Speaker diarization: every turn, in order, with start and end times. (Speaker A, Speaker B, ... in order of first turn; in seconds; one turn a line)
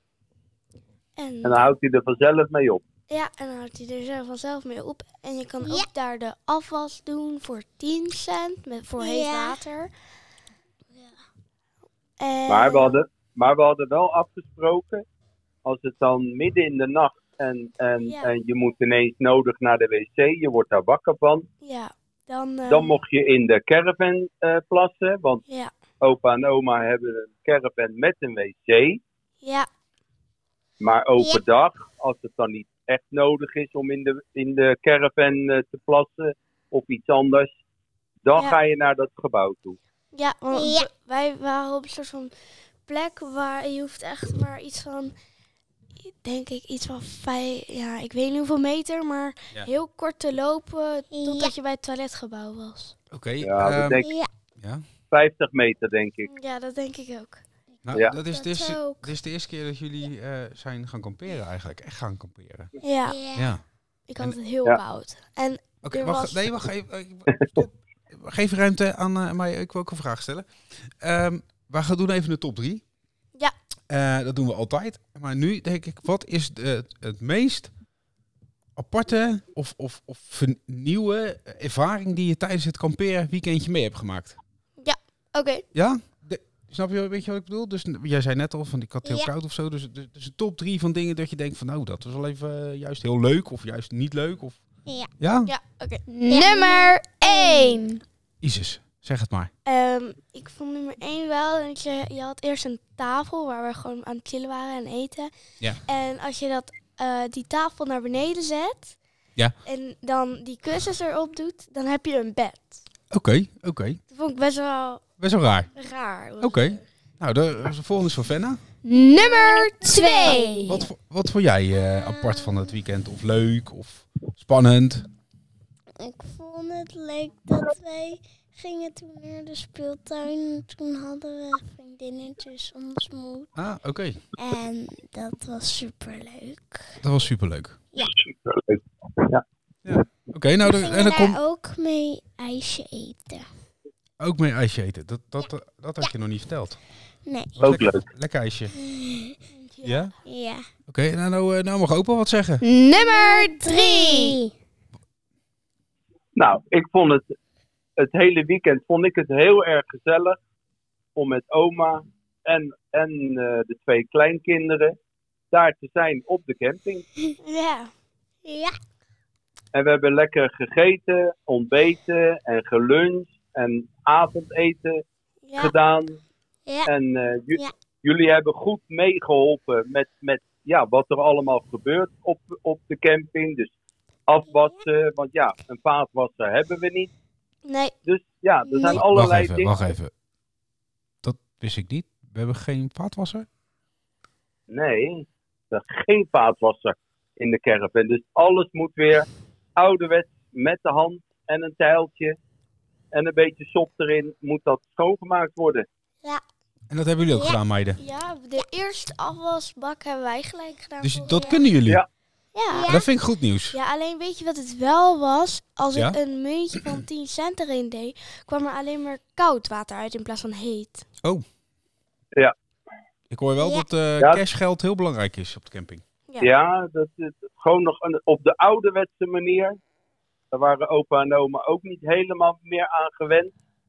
Speaker A: 1.2-1.6
Speaker B: 1.4-2.8
Speaker A: 3.1-9.9
Speaker C: 9.0-9.6
Speaker A: 12.2-13.0
Speaker B: 12.5-15.1
Speaker B: 15.6-21.5
Speaker A: 18.0-18.3
Speaker A: 21.6-23.0
Speaker B: 22.7-25.4
Speaker B: 26.0-29.0
Speaker A: 29.4-29.7
Speaker B: 30.8-37.5
Speaker C: 31.2-31.4
Speaker B: 38.2-39.8
Speaker A: 40.1-42.3
Speaker C: 40.5-40.9
Speaker A: 42.9-45.1
Speaker A: 46.0-53.0
Speaker C: 51.1-51.5
Speaker D: 53.1-54.0
Speaker B: 53.4-54.1
Speaker C: 54.0-54.3
Speaker B: 55.1-56.3
Speaker A: 56.3-57.4
Speaker D: 57.9-62.7
Speaker C: 57.9-59.1
Speaker A: 62.8-63.2
Speaker C: 63.1-63.5
Speaker D: 63.4-63.6
Speaker A: 64.1-66.5
Speaker D: 65.8-72.8
Speaker D: 73.9-77.7
Speaker D: 78.8-84.4
Speaker A: 84.8-85.7
Speaker D: 85.7-94.6
Speaker C: 89.0-89.3
Speaker D: 95.2-95.5
Speaker A: 95.5-98.0
Speaker C: 96.3-97.9
Speaker D: 98.4-99.5
Speaker A: 99.7-105.3
Speaker A: 105.8-109.0
Speaker A: 109.7-112.8
Speaker D: 113.1-114.0
Speaker A: 114.1-115.0
Speaker D: 115.2-115.7
Speaker A: 115.8-116.8
Speaker D: 116.4-118.6
Speaker A: 118.8-120.8
Speaker C: 119.2-120.8
Speaker D: 120.7-125.1
Speaker C: 126.0-133.5
Speaker D: 133.6-134.2
Speaker C: 134.4-136.9
Speaker D: 137.0-137.8
Speaker B: 138.0-139.4
Speaker D: 139.8-141.4
Speaker C: 140.6-143.5
Speaker D: 144.2-146.8
Speaker C: 147.3-147.6
Speaker D: 147.6-148.7
Speaker B: 147.6-148.0
Speaker C: 148.8-149.4
Speaker A: 149.5-150.1
Speaker D: 149.8-150.1
Speaker C: 150.3-150.7
Speaker D: 150.9-152.6
Speaker A: 152.6-154.4
Speaker C: 152.9-154.5
Speaker B: 156.4-157.3
Speaker B: 158.0-160.4
Speaker B: 161.2-165.0
Speaker B: 165.5-167.1
Speaker A: 167.4-167.9
Speaker C: 168.4-168.8
Speaker B: 169.7-175.0
Speaker A: 175.4-175.7
Speaker B: 175.6-176.2
Speaker B: 176.9-183.7
Speaker B: 184.3-187.1
Speaker A: 187.7-187.9
Speaker B: 188.1-189.9
Speaker C: 188.7-189.0
Speaker D: 188.9-190.1
Speaker D: 191.2-193.5
Speaker B: 194.7-202.4
Speaker B: 203.1-205.9
Speaker D: 206.9-208.0
Speaker C: 207.3-207.6
Speaker A: 208.0-211.7
Speaker D: 211.0-212.0
Speaker A: 212.6-212.9
Speaker C: 212.7-213.1
Speaker D: 212.9-213.8
Speaker A: 213.7-221.1
Speaker D: 223.3-226.0
Speaker C: 223.6-223.9
Speaker B: 226.4-229.8
Speaker B: 230.5-233.5